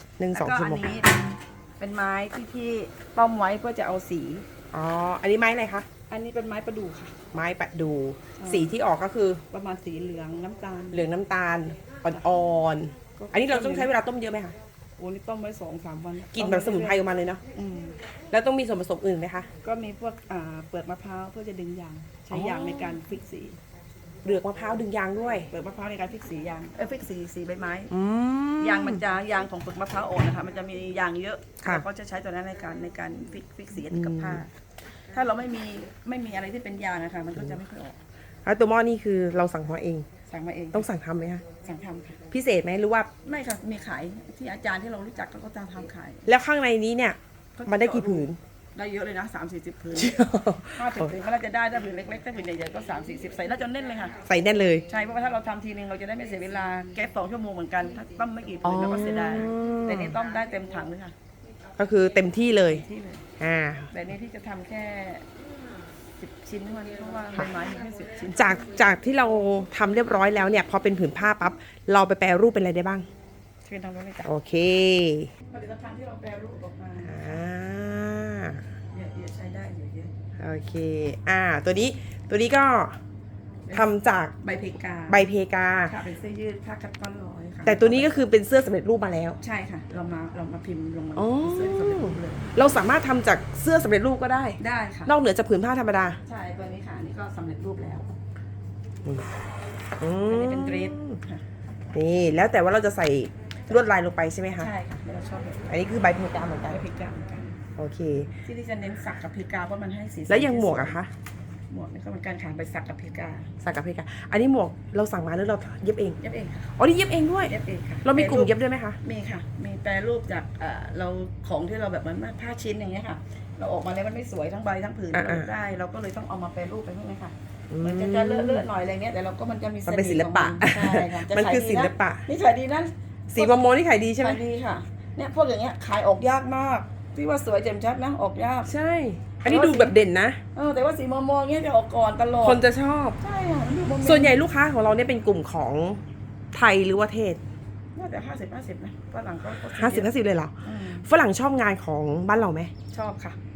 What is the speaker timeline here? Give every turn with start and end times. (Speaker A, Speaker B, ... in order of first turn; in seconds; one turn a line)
Speaker A: 0.2-0.9
Speaker B: 0.3-4.5
Speaker A: 4.7-5.9
Speaker B: 6.1-7.2
Speaker A: 7.3-9.4
Speaker B: 8.3-8.8
Speaker B: 9.5-11.1
Speaker A: 10.9-14.5
Speaker B: 13.2-13.9
Speaker B: 15.0-18.0
Speaker A: 16.3-17.4
Speaker A: 18.3-19.5
Speaker B: 19.6-23.6
Speaker A: 22.3-23.0
Speaker A: 24.2-25.5
Speaker B: 25.5-27.9
Speaker A: 27.9-29.0
Speaker B: 28.6-34.5
Speaker A: 33.9-34.4
Speaker B: 35.1-38.0
Speaker A: 38.5-40.1
Speaker B: 40.3-40.9
Speaker A: 40.7-41.5
Speaker B: 41.5-42.2
Speaker A: 42.3-43.1
Speaker B: 43.2-46.3
Speaker A: 46.2-48.4
Speaker B: 47.5-50.2
Speaker A: 49.9-51.1
Speaker B: 50.7-54.2
Speaker A: 54.2-54.9
Speaker B: 54.9-61.1
Speaker A: 58.6-60.1
Speaker A: 61.8-62.8
Speaker B: 62.5-63.2
Speaker A: 63.4-63.9
Speaker B: 63.9-65.3
Speaker B: 66.2-68.7
Speaker A: 68.3-73.1
Speaker B: 73.6-74.3
Speaker A: 74.2-75.3
Speaker B: 75.5-77.4
Speaker A: 77.0-78.6
Speaker B: 78.9-80.1
Speaker A: 80.4-83.0
Speaker B: 83.7-85.3
Speaker A: 83.7-84.3
Speaker A: 85.1-85.9
Speaker B: 85.8-88.2
Speaker A: 87.7-89.4
Speaker B: 89.4-92.6
Speaker A: 91.2-96.2
Speaker B: 94.6-95.1
Speaker B: 96.2-98.1
Speaker A: 100.0-101.2
Speaker B: 100.2-101.4
Speaker A: 101.9-104.7
Speaker B: 104.6-105.8
Speaker A: 105.7-106.8
Speaker B: 106.6-107.5
Speaker A: 107.8-108.3
Speaker B: 108.4-111.1
Speaker A: 110.3-111.1
Speaker B: 111.7-113.5
Speaker A: 113.6-116.2
Speaker B: 116.2-116.8
Speaker A: 116.8-119.0
Speaker B: 117.4-138.7
Speaker A: 125.1-125.5
Speaker A: 127.7-128.7
Speaker A: 129.9-132.2
Speaker A: 133.3-134.4
Speaker A: 138.7-140.4
Speaker B: 139.4-140.0
Speaker B: 140.5-142.6
Speaker A: 142.4-143.2
Speaker B: 143.2-144.4
Speaker A: 144.0-146.0
Speaker A: 146.5-147.4
Speaker B: 147.9-151.1
Speaker A: 149.7-152.7
Speaker B: 152.9-153.4